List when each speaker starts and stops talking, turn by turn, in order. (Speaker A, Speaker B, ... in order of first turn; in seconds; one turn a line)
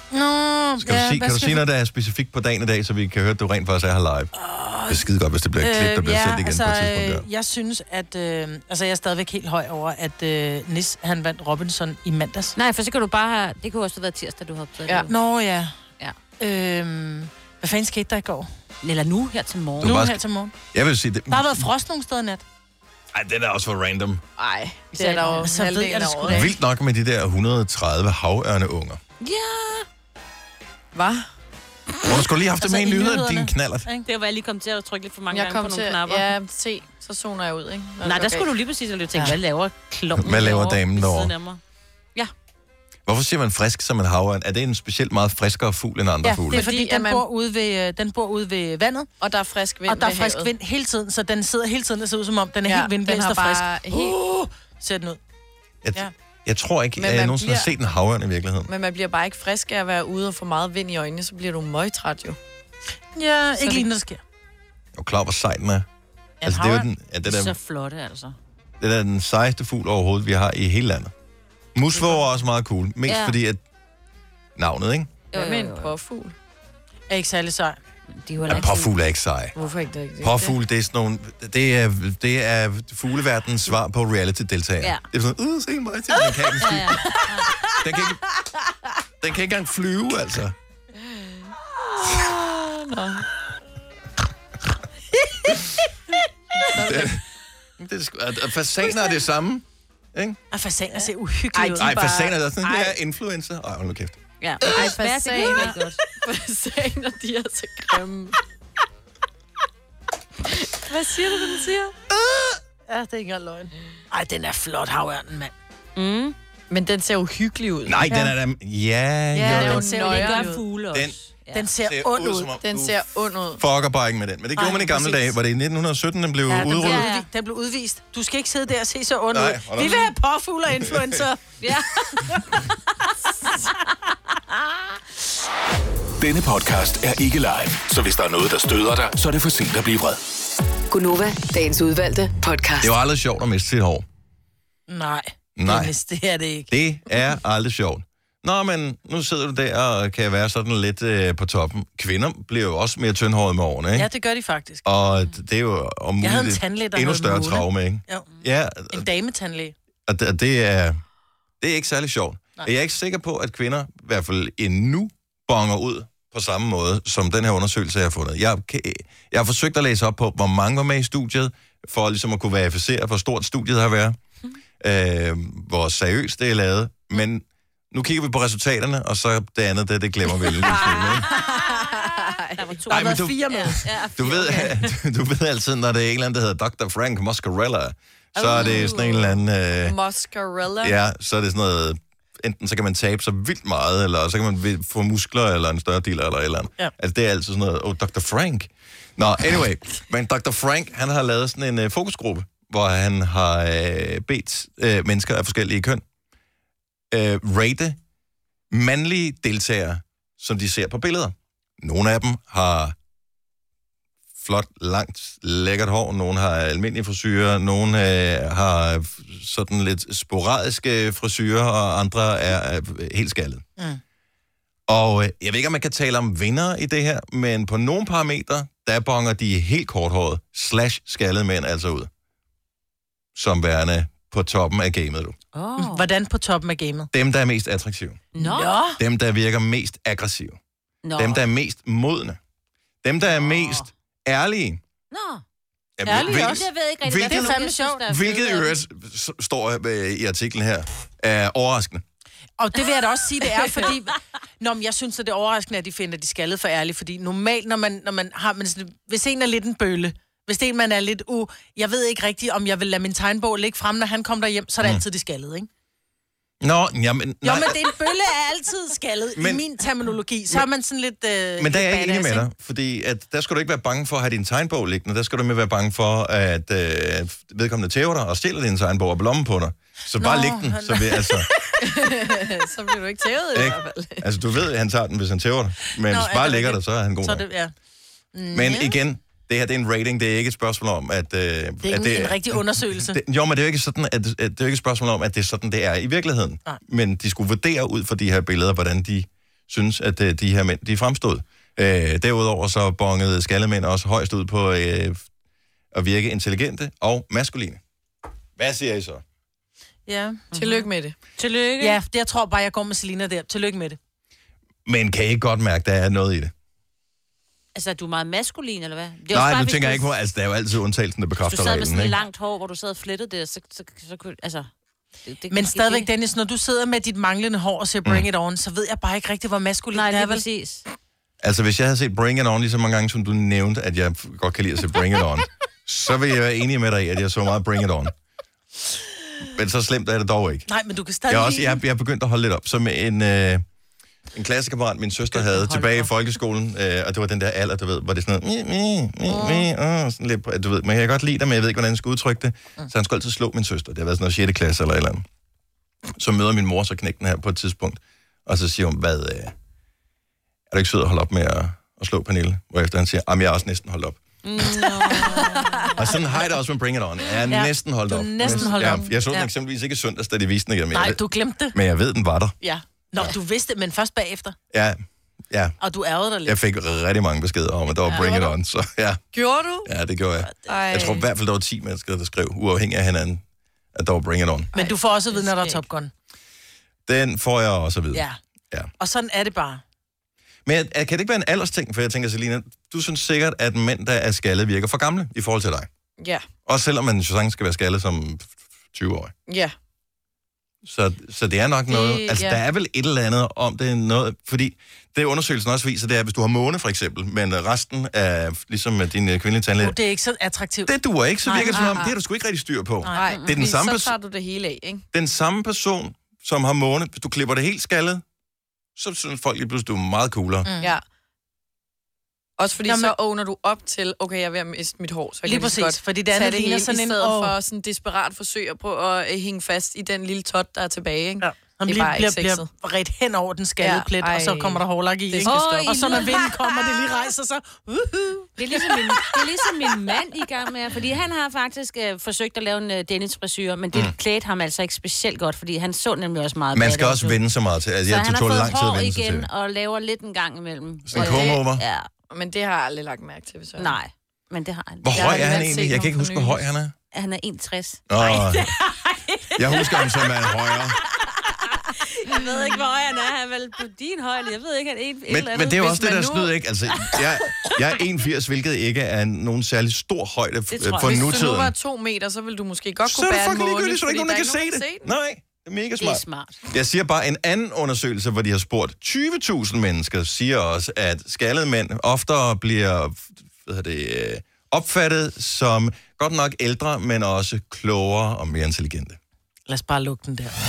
Speaker A: 0.1-1.6
Speaker B: 0.8-4.3
Speaker A: 4.4-12.6
Speaker B: 4.9-7.2
Speaker C: 12.6-15.1
Speaker A: 15.1-15.7
Speaker A: 16.4-18.5
Speaker C: 18.8-20.0
Speaker B: 19.8-20.2
Speaker A: 19.8-20.5
Speaker B: 20.7-21.7
Speaker A: 21.3-22.4
Speaker B: 23.1-24.2
Speaker D: 24.4-26.5
Speaker A: 24.9-26.5
Speaker C: 25.0-25.4
Speaker B: 26.3-29.0
Speaker C: 29.2-29.9
Speaker D: 30.9-31.3
Speaker B: 32.0-33.9
Speaker A: 32.6-34.1
Speaker C: 34.0-36.3
Speaker D: 35.3-38.5
Speaker C: 38.0-41.6
Speaker B: 40.1-41.3
Speaker B: 43.1-46.7
Speaker A: 46.2-49.1
Speaker D: 46.5-47.2
Speaker D: 49.2-50.5
Speaker A: 49.9-55.2
Speaker D: 52.6-54.2
Speaker B: 55.8-58.7
Speaker D: 57.0-57.7
Speaker D: 58.7-62.4
Speaker A: 63.1-64.2
Speaker D: 63.6-63.9
Speaker B: 65.0-65.9
Speaker A: 66.4-66.9
Speaker B: 66.4-67.5
Speaker C: 67.2-68.4
Speaker B: 68.8-71.1
Speaker B: 71.8-73.6
Speaker C: 73.1-73.4
Speaker B: 74.6-75.1
Speaker C: 75.3-75.9
Speaker D: 75.3-76.3
Speaker A: 77.1-77.8
Speaker C: 78.1-78.9
Speaker B: 78.5-79.5
Speaker D: 79.6-80.5
Speaker B: 80.2-87.2
Speaker C: 86.6-87.8
Speaker B: 87.8-88.4
Speaker B: 89.2-90.5
Speaker D: 92.0-93.3
Speaker D: 96.7-97.2
Speaker B: 96.8-97.2
Speaker B: 97.8-100.4
Speaker A: 100.5-102.1
Speaker D: 101.5-102.9
Speaker B: 101.8-104.2
Speaker C: 104.4-106.0
Speaker D: 104.6-108.4
Speaker D: 110.5-112.0
Speaker B: 112.1-112.6
Speaker A: 112.9-115.5
Speaker C: 116.0-116.4
Speaker D: 116.7-118.3
Speaker B: 117.9-119.9
Speaker A: 119.3-120.5
Speaker C: 119.4-121.7
Speaker D: 119.4-120.6
Speaker A: 121.5-122.5
Speaker B: 121.8-127.1
Speaker D: 122.6-123.6
Speaker A: 124.6-125.4
Speaker A: 126.5-131.5
Speaker C: 126.5-127.3
Speaker B: 129.3-130.1
Speaker B: 130.7-131.2
Speaker C: 131.6-132.3
Speaker E: 136.2-140.2
Speaker F: 140.9-142.9
Speaker B: 142.8-144.1
Speaker A: 144.9-146.7
Speaker B: 145.6-145.9
Speaker B: 146.7-154.1
Speaker A: 153.9-154.8
Speaker B: 154.8-159.1
Speaker A: 156.2-158.3
Speaker A: 158.9-159.8
Speaker B: 160.1-161.0
Speaker B: 161.6-174.2
Speaker B: 174.8-181.3
Speaker C: 180.7-184.9
Speaker D: 181.5-182.8
Speaker A: 182.9-183.8
Speaker B: 182.9-190.0
Speaker D: 188.4-191.0
Speaker C: 188.5-189.1
Speaker B: 190.8-206.0
Speaker B: 207.1-208.0
Speaker B: 208.7-213.0
Speaker B: 214.4-223.6
Speaker B: 224.9-232.1
Speaker B: 233.3-235.4
Speaker C: 235.5-236.1
Speaker A: 235.8-237.1
Speaker B: 237.1-238.2
Speaker C: 238.3-238.8
Speaker A: 238.4-239.0
Speaker B: 239.0-240.6
Speaker C: 241.0-241.4
Speaker B: 241.2-242.4
Speaker B: 243.0-244.8
Speaker C: 243.3-243.8
Speaker C: 245.1-245.4
Speaker B: 246.0-252.0
Speaker A: 246.1-246.7
Speaker C: 246.1-248.7
Speaker A: 247.2-248.1
Speaker A: 252.6-265.7
Speaker B: 266.6-267.8
Speaker A: 267.4-272.1
Speaker B: 269.4-269.6
Speaker B: 271.6-281.5
Speaker D: 271.9-272.4
Speaker A: 280.2-281.7
Speaker D: 281.8-284.3
Speaker B: 283.6-287.4
Speaker A: 286.1-287.7
Speaker A: 288.3-289.0
Speaker B: 288.5-305.2
Speaker A: 291.8-293.2
Speaker B: 305.9-307.8
Speaker B: 308.6-309.2
Speaker A: 310.1-310.4
Speaker C: 310.5-312.0
Speaker D: 310.6-311.2
Speaker A: 311.8-314.0
Speaker B: 314.9-316.5
Speaker C: 317.8-320.1
Speaker B: 319.3-322.1
Speaker C: 321.5-324.7
Speaker C: 325.2-326.1
Speaker A: 325.5-330.4
Speaker C: 329.9-330.8
Speaker B: 331.4-338.1
Speaker B: 339.5-340.7
Speaker A: 340.7-341.8
Speaker B: 341.3-343.6
Speaker B: 344.3-355.2
Speaker A: 345.3-346.1
Speaker A: 349.3-349.6
Speaker B: 356.2-359.5
Speaker B: 360.7-364.2
Speaker C: 364.5-366.1
Speaker D: 365.1-365.6
Speaker B: 366.0-372.6
Speaker A: 367.5-369.5
Speaker D: 368.5-369.1
Speaker A: 370.9-371.8
Speaker A: 372.6-374.6
Speaker B: 374.7-375.8
Speaker A: 375.8-376.6
Speaker B: 376.5-379.2
Speaker D: 378.1-378.6
Speaker D: 379.3-379.9
Speaker B: 379.9-383.4
Speaker D: 380.6-381.3
Speaker B: 383.9-384.7
Speaker D: 384.7-385.8
Speaker A: 384.7-386.1
Speaker B: 387.1-388.9
Speaker A: 388.1-388.4
Speaker A: 389.0-389.8
Speaker B: 390.7-395.9
Speaker D: 396.2-396.5
Speaker B: 396.7-399.3
Speaker D: 399.5-399.8
Speaker B: 400.9-410.0
Speaker A: 401.9-402.4
Speaker D: 402.3-402.6
Speaker A: 409.8-410.9
Speaker B: 410.9-414.1
Speaker A: 411.4-412.1
Speaker D: 411.6-412.1
Speaker D: 413.1-415.1
Speaker C: 413.2-413.5
Speaker B: 415.1-418.2
Speaker B: 419.0-420.7
Speaker A: 420.6-420.9
Speaker D: 422.6-432.7
Speaker A: 422.9-423.2
Speaker A: 425.4-427.6
Speaker A: 431.4-439.4
Speaker D: 433.8-436.3
Speaker C: 435.4-436.9
Speaker C: 438.6-447.4
Speaker B: 446.8-449.5
Speaker C: 448.1-452.1
Speaker B: 451.1-451.8
Speaker D: 451.2-451.6
Speaker D: 452.3-454.0
Speaker C: 453.8-455.8
Speaker B: 455.0-456.9
Speaker D: 455.1-456.6
Speaker C: 457.1-460.5
Speaker B: 458.1-458.7
Speaker B: 459.6-461.0
Speaker C: 461.0-466.0
Speaker B: 465.3-471.7
Speaker D: 465.8-466.5
Speaker C: 470.8-471.4
Speaker D: 470.9-475.1
Speaker B: 473.1-489.2
Speaker C: 476.0-476.6
Speaker A: 489.7-490.5